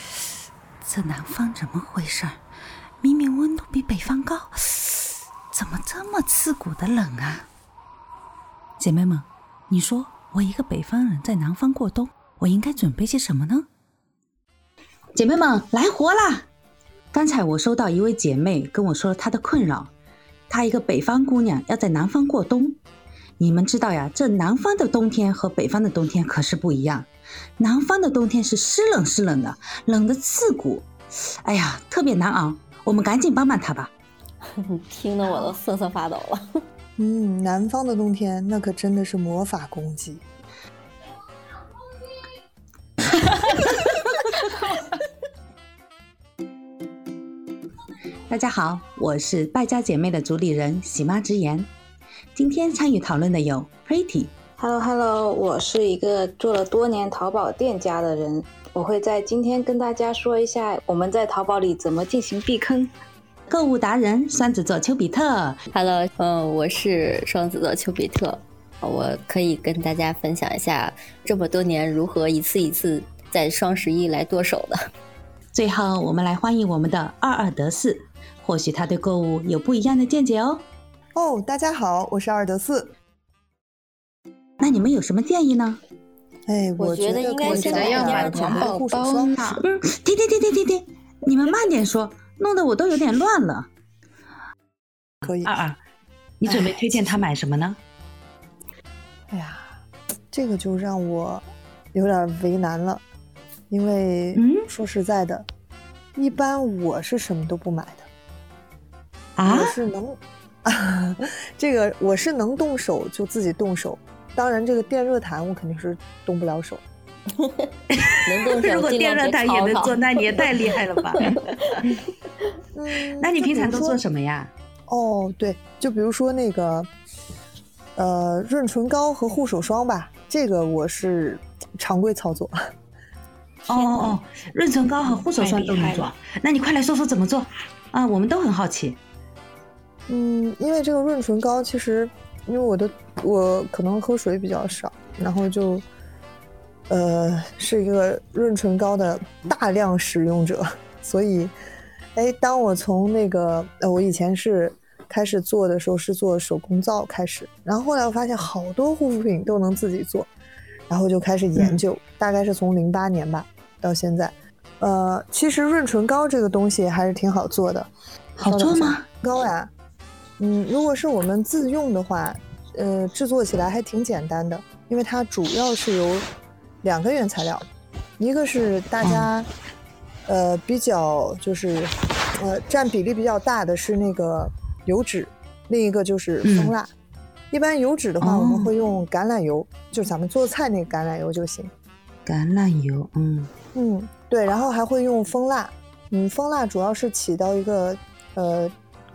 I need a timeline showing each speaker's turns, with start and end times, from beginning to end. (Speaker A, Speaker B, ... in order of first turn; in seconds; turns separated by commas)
Speaker A: 0.8-2.4, Speaker A: 3.0-7.5, Speaker A: 8.8-13.7, Speaker A: 15.1-16.5, Speaker A: 17.1-19.9, Speaker A: 20.5-22.8, Speaker A: 23.4-27.1, Speaker A: 27.6-30.9, Speaker A: 31.4-33.9, Speaker B: 34.5-36.6, Speaker C: 37.0-40.2, Speaker A: 48.3-51.7, Speaker A: 52.3-54.3, Speaker D: 54.6-62.9, Speaker A: 63.5-65.6, Speaker B: 65.7-74.8, Speaker A: 75.5-80.7, Speaker C: 81.1-82.9, Speaker A: 84.6-85.8, Speaker C: 86.5-89.4, Speaker B: 86.8-88.7, Speaker D: 87.4-89.6, Speaker A: 89.6-93.7, Speaker C: 95.2-95.5, Speaker A: 95.2-95.8, Speaker A: 96.4-97.8, Speaker C: 96.5-97.0, Speaker C: 99.3-99.7, Speaker C: 100.3-103.0, Speaker C: 103.7-105.5, Speaker A: 104.3-104.7, Speaker C: 106.1-108.1, Speaker A: 109.3-109.8, Speaker C: 109.5-116.8, Speaker B: 117.4-117.7, Speaker A: 117.9-121.4, Speaker B: 118.2-121.8, Speaker C: 122.7-124.0, Speaker A: 123.2-124.5, Speaker C: 124.9-126.9, Speaker C: 128.0-132.6, Speaker A: 133.7-139.0, Speaker D: 135.3-136.1, Speaker C: 140.1-145.8, Speaker C: 146.9-151.5, Speaker C: 152.1-160.3, Speaker C: 160.9-167.9, Speaker A: 161.6-161.8, Speaker A: 168.4-169.1, Speaker C: 168.4-169.7, Speaker C: 170.4-176.3, Speaker C: 176.8-177.7, Speaker C: 178.2-179.5, Speaker A: 179.0-179.3, Speaker C: 180.3-186.9, Speaker A: 186.4-186.7, Speaker C: 187.5-191.7, Speaker A: 188.2-188.7, Speaker A: 192.2-193.5, Speaker C: 193.7-198.7